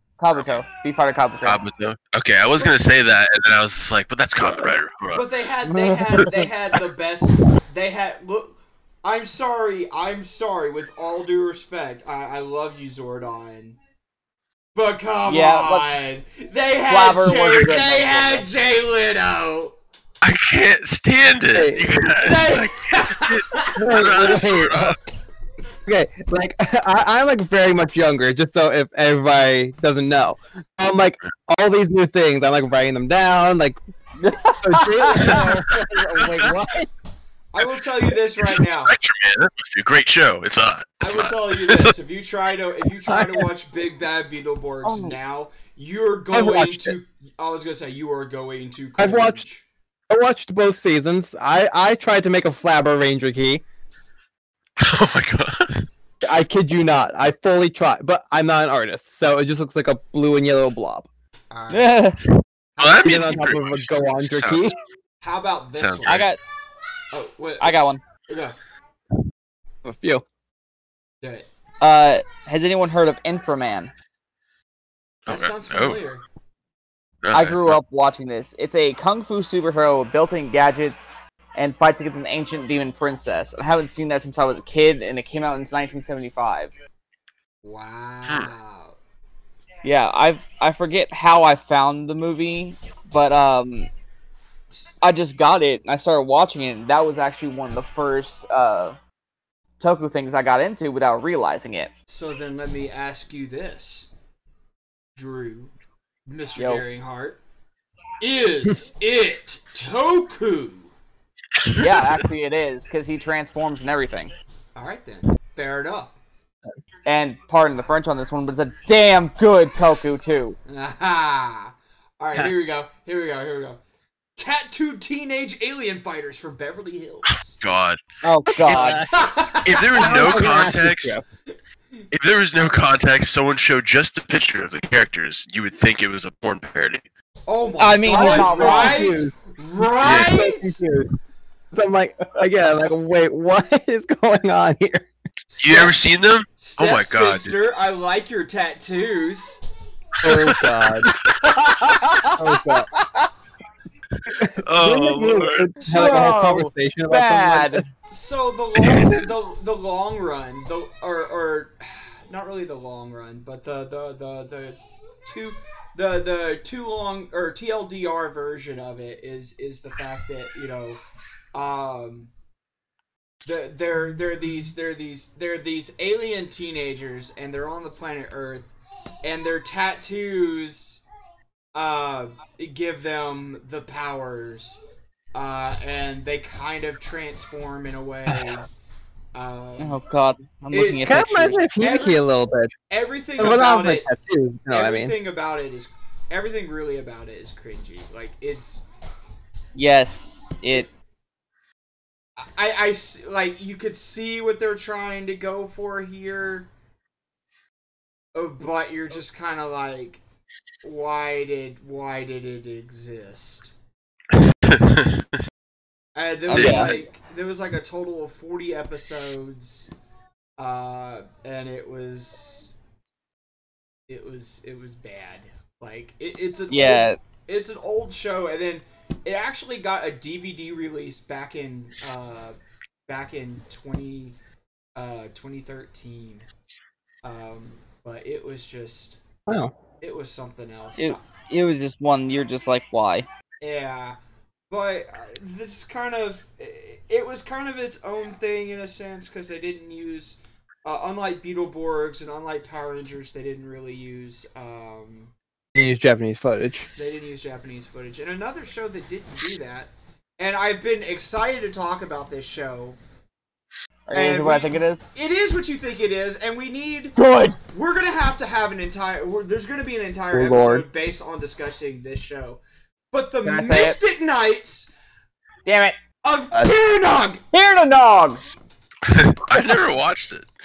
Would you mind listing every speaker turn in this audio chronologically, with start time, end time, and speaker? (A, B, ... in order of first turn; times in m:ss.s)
0:00.2-0:01.6 A
0:01.4-0:05.2 B
0:05.1-0:13.8 C
0:05.6-0:06.5 D
0:14.7-0:19.7 C
0:15.3-0:16.0 A
0:16.9-0:18.4 A
0:20.2-0:25.0 B
0:21.5-0:22.0 D
0:22.1-0:24.2 C
0:23.8-0:25.0 D
0:25.8-0:33.8 D
0:34.2-0:35.5 A
0:34.6-0:36.9 D
0:35.1-0:35.5 C
0:37.5-0:38.9 C
0:38.4-0:41.9 B
0:41.0-0:49.6 C
0:43.1-0:43.5 D
0:44.8-0:45.2 A
0:46.3-0:46.9 D
0:49.0-0:49.4 D
0:50.1-0:53.6 D
0:54.8-0:55.8 B
0:56.2-1:01.1 D
1:01.5-1:02.1 C
1:01.7-1:02.2 A
1:02.8-1:03.4 C
1:02.8-1:04.7 B
1:03.0-1:04.8 D
1:05.2-1:06.3 C
1:05.8-1:06.3 B
1:06.0-1:06.4 A
1:07.1-1:08.6 C
1:07.6-1:08.0 A
1:09.8-1:10.2 D
1:11.2-1:11.5 C
1:11.8-1:13.9 A
1:15.3-1:16.0 B
1:15.3-1:16.2 C
1:17.2-1:17.8 B
1:17.3-1:26.7 A
1:27.6-1:29.0 C
1:29.8-1:33.9 A
1:35.0-1:39.0 A
1:39.8-1:41.9 A
1:42.1-1:44.1 C
1:45.2-1:45.7 C
1:46.3-1:47.4 C
1:46.6-1:46.8 A
1:48.2-1:50.9 C
1:51.6-1:52.0 B
1:51.8-1:54.3 A
1:54.7-1:56.2 C
1:57.0-2:00.6 A
2:00.7-2:03.8 C
2:04.4-2:07.6 C
2:07.6-2:08.0 B
2:08.2-2:09.0 A
2:08.6-2:09.1 D
2:09.0-2:10.6 C
2:09.6-2:11.2 B
2:09.9-2:11.2 D
2:12.1-2:17.0 B
2:17.5-2:20.8 C
2:17.8-2:19.1 A
2:18.1-2:19.4 D
2:19.9-2:21.1 D
2:20.0-2:20.4 B
2:21.7-2:25.1 D
2:25.5-2:26.0 C
2:25.6-2:27.5 B
2:26.5-2:29.6 C
2:30.2-2:31.1 B
2:30.2-2:31.1 D
2:31.4-2:33.2 A
2:32.3-2:32.9 D
2:34.2-2:35.7 B
2:34.4-2:37.8 D
2:35.8-2:37.8 A
2:35.9-2:36.3 C
2:38.1-2:51.0 C
2:51.5-2:52.3 C
2:53.4-3:01.0 C
3:01.7-3:04.8 C
3:05.3-3:08.6 C
3:09.3-3:10.0 C
3:09.8-3:11.6 A
3:10.7-3:11.2 C
3:11.0-3:12.7 D
3:11.8-3:12.2 C
3:12.9-3:14.1 C
3:13.4-3:15.1 D
3:14.7-3:18.8 C
3:19.7-3:20.9 A
3:22.4-3:26.7 C
3:28.3-3:30.2 C
3:30.8-3:33.7 C
3:34.3-3:35.2 B
3:36.1-3:39.9 C
3:36.5-3:36.9 A
3:36.5-3:36.9 B
3:40.6-3:42.7 C
3:44.1-3:54.4 C
3:46.7-3:47.2 A
3:55.0-3:56.5 C
3:57.2-3:59.2 C
3:59.5-3:59.7 D
4:00.0-4:01.2 C
4:01.0-4:03.3 A
4:03.6-4:04.2 C
4:04.7-4:15.3 C
4:15.7-4:16.9 D
4:17.0-4:23.0 C
4:24.1-4:25.0 A
4:24.1-4:32.6 C
4:27.2-4:27.6 A
4:30.3-4:30.8 D
4:33.1-4:34.9 C
4:33.4-4:34.0 A
4:35.6-4:36.0 A
4:36.2-4:37.4 C
4:37.5-4:38.4 A
4:39.0-4:40.5 B